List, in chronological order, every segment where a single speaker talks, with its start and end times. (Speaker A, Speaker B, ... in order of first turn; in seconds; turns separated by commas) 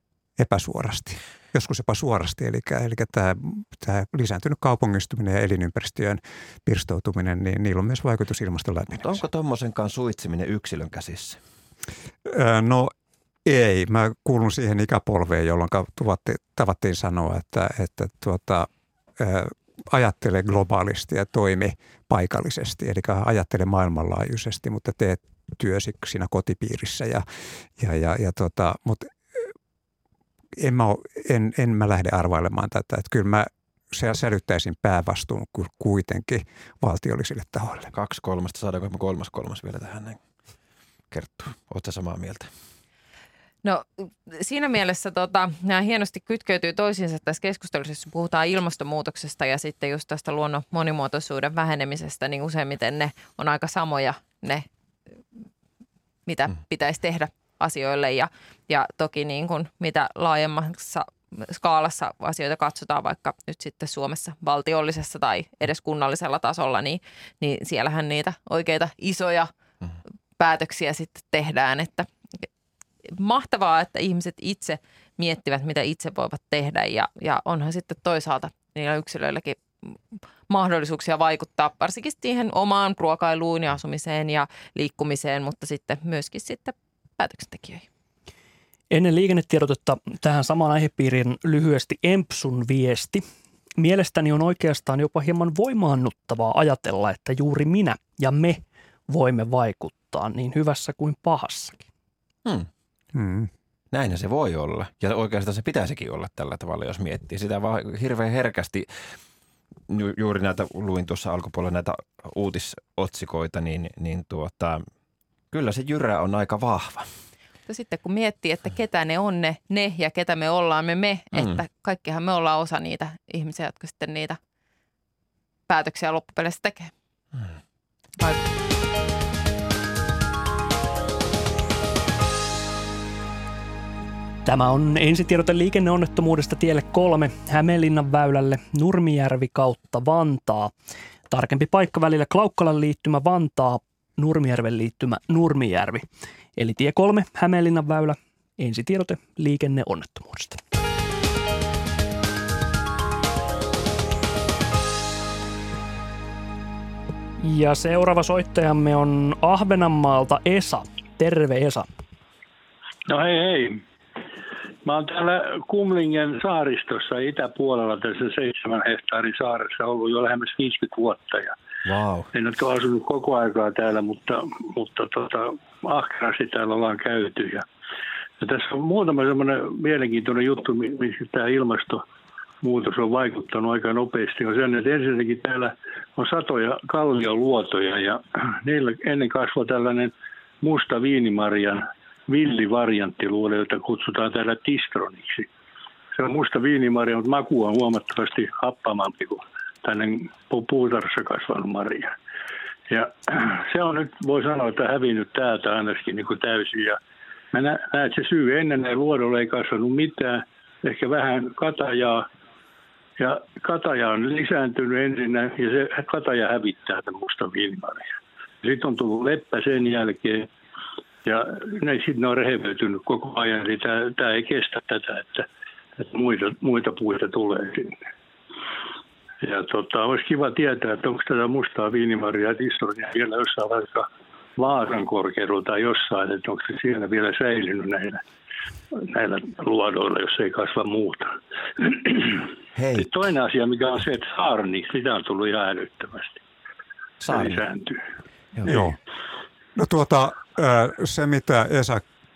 Speaker A: 0.4-9.2, Speaker B: 8.9-11.4, Speaker A: 12.3-12.9, Speaker A: 13.4-18.7, Speaker A: 19.2-27.2, Speaker A: 27.8-29.5, Speaker A: 30.6-37.9, Speaker B: 37.9-40.2, Speaker B: 41.1-42.5, Speaker C: 43.6-54.7, Speaker C: 56.3-69.5, Speaker C: 70.4-72.1, Speaker C: 73.1-79.9, Speaker C: 80.5-87.9, Speaker D: 88.9-93.2, Speaker D: 93.8-101.8, Speaker A: 103.2-103.5, Speaker B: 103.9-108.9, Speaker B: 109.9-114.8, Speaker B: 115.5-117.1, Speaker C: 117.7-124.4, Speaker B: 121.3-121.6, Speaker C: 125.7-126.9, Speaker D: 134.4-140.7, Speaker D: 141.3-146.1, Speaker D: 146.6-150.6, Speaker D: 157.4-161.9, Speaker E: 163.1-163.8, Speaker E: 164.8-171.6, Speaker B: 171.8-172.3, Speaker E: 172.3-177.7, Speaker E: 178.4-182.0, Speaker E: 182.6-195.5, Speaker E: 196.2-202.1, Speaker E: 202.9-207.0, Speaker E: 207.5-212.3, Speaker E: 213.2-218.1, Speaker E: 218.6-220.5, Speaker E: 221.2-225.5, Speaker E: 226.0-228.0, Speaker E: 229.4-238.2, Speaker E: 239.0-242.4, Speaker B: 242.8-243.1, Speaker E: 242.9-246.4, Speaker B: 247.2-247.6, Speaker E: 247.3-248.0, Speaker B: 248.6-248.8, Speaker A: 248.7-249.0, Speaker A: 249.8-252.1